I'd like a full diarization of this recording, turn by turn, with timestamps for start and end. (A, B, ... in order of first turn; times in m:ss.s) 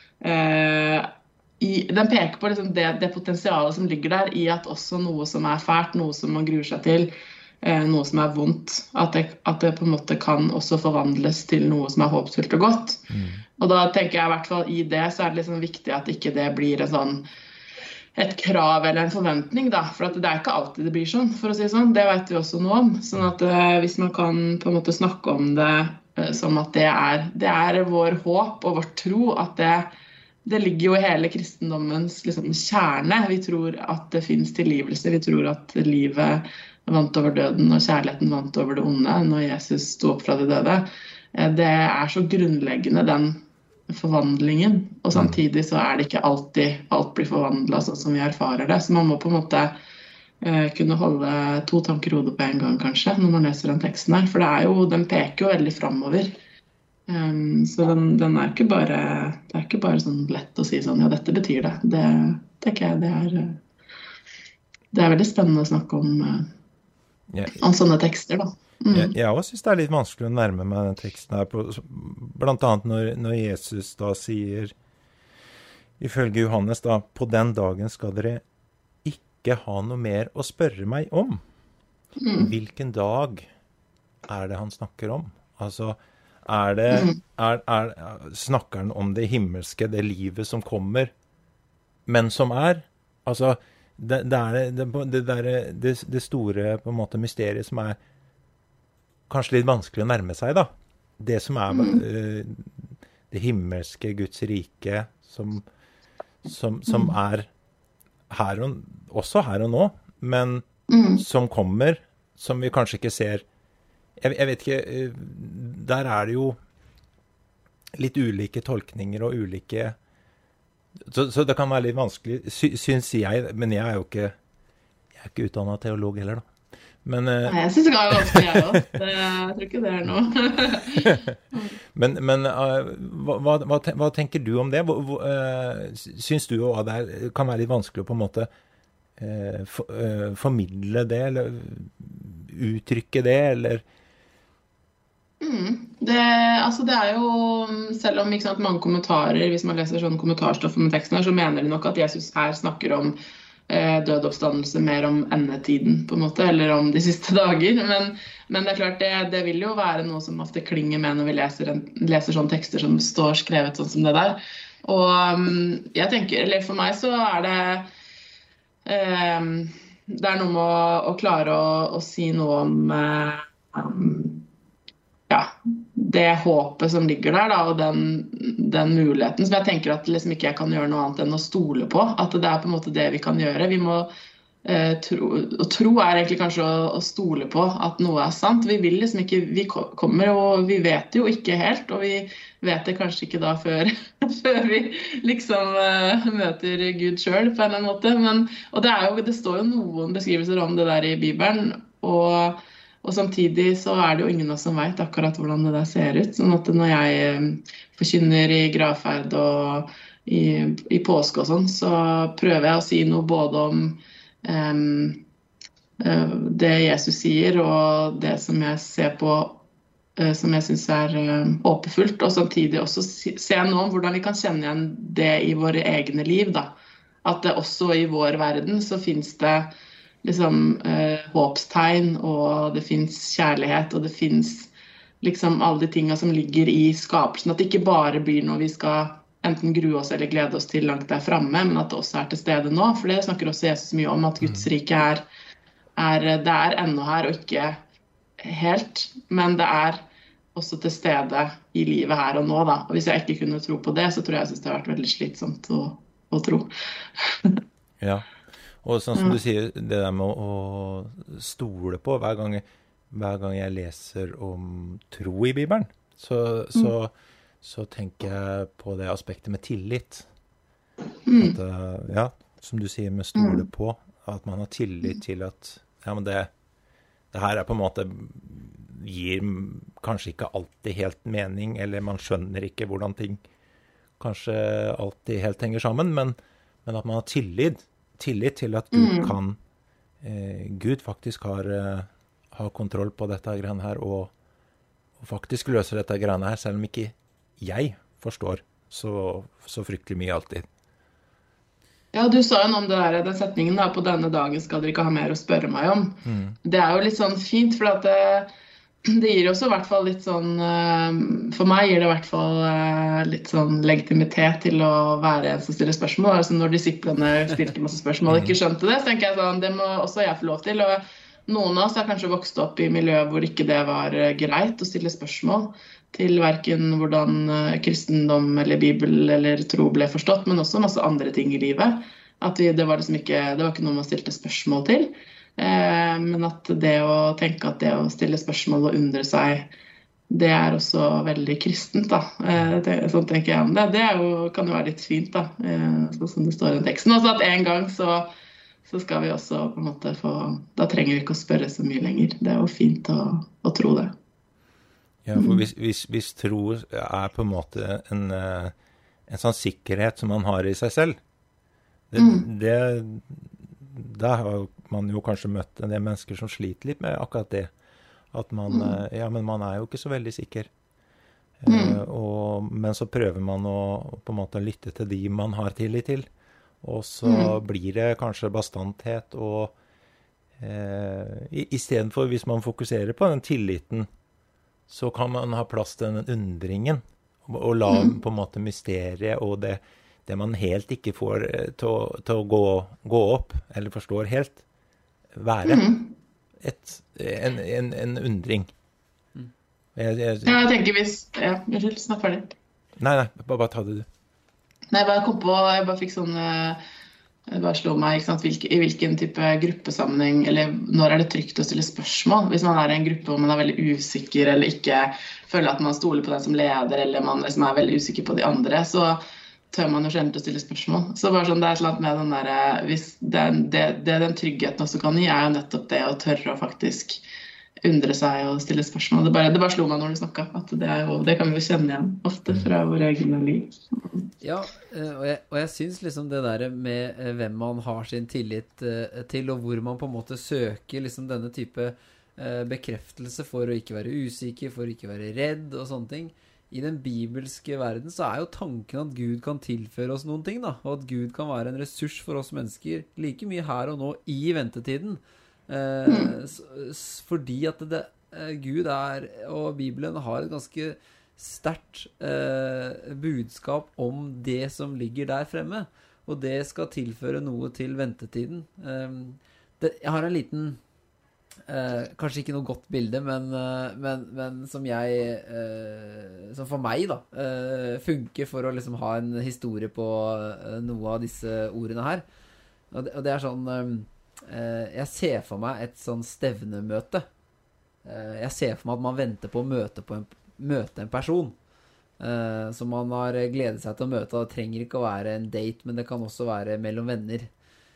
0:00.2-0:07.1 A
0:07.6-0:17.2 A
0:13.1-0:13.4 B
0:18.1-0:29.9 A
0:30.4-0:49.8 A
0:45.1-0:45.4 B
0:50.4-0:56.3 A
0:57.1-1:03.6 A
1:04.9-1:06.5 A
1:07.3-1:07.6 B
1:07.5-1:09.1 A
1:08.9-1:14.7 B
1:16.0-1:18.4 B
1:19.0-1:21.4 B
1:22.2-1:22.5 A
1:22.4-1:23.5 B
1:24.3-1:31.1 B
1:26.9-1:27.2 A
1:32.1-1:38.0 B
1:39.3-1:45.6 B
1:41.7-1:42.0 A
1:46.4-1:47.5 B
1:46.9-1:47.1 A
1:48.3-1:50.6 B
1:50.9-1:51.2 A
1:51.2-1:53.4 B
1:54.2-1:56.6 B
1:57.9-2:00.0 B
2:01.0-2:04.4 B
2:05.1-2:06.5 B
2:07.0-2:07.6 B
2:07.4-2:11.8 A
2:08.1-2:08.8 B
2:11.9-2:18.5 B
2:19.2-2:23.8 B
2:25.4-2:33.2 A
2:33.7-2:47.9 A
2:48.8-2:54.4 A
2:55.3-3:04.1 A
3:04.6-3:35.2 A
3:36.0-3:39.6 A
3:40.2-3:46.7 A
3:47.2-3:49.7 A
3:50.2-3:54.7 A
3:55.2-4:05.2 A
4:06.0-4:07.8 A
4:08.4-4:10.0 A
4:10.5-4:17.6 A
4:18.0-4:18.2 B
4:18.8-4:30.2 B
4:31.3-4:31.6 A
4:31.4-4:36.5 B
4:33.3-4:33.6 A
4:37.3-4:43.4 B
4:44.2-4:49.6 B
4:48.9-4:49.3 A
4:50.2-4:54.3 B
4:55.2-5:00.7 B
5:02.1-5:08.5 A
5:06.2-5:06.6 B
5:09.0-5:39.7 A
5:18.3-5:18.6 B
5:40.3-5:48.3 A
5:48.9-5:54.1 A
5:55.2-5:58.7 B
5:55.4-5:55.6 A
5:59.3-6:01.2 B
6:02.1-6:07.7 B
6:02.2-6:02.5 A
6:08.3-6:10.7 B
6:08.7-6:09.0 A
6:11.6-6:16.3 B
6:11.7-6:12.0 A
6:16.8-6:19.7 B
6:17.2-6:17.5 A
6:20.6-6:24.1 B
6:24.9-6:34.6 B
6:27.9-6:28.2 A
6:35.3-6:35.8 B
6:35.6-6:36.1 A
6:36.6-6:38.7 B
6:39.9-6:40.6 B
6:40.4-6:42.5 A
6:43.0-6:44.1 B
6:44.9-6:46.8 A
6:47.5-7:07.2 A
7:07.8-7:14.2 A
7:14.4-7:50.8 C
7:36.1-7:36.3 A
7:51.7-8:02.2 C
8:02.9-8:07.2 C
8:08.0-8:11.6 C
8:12.2-8:17.5 C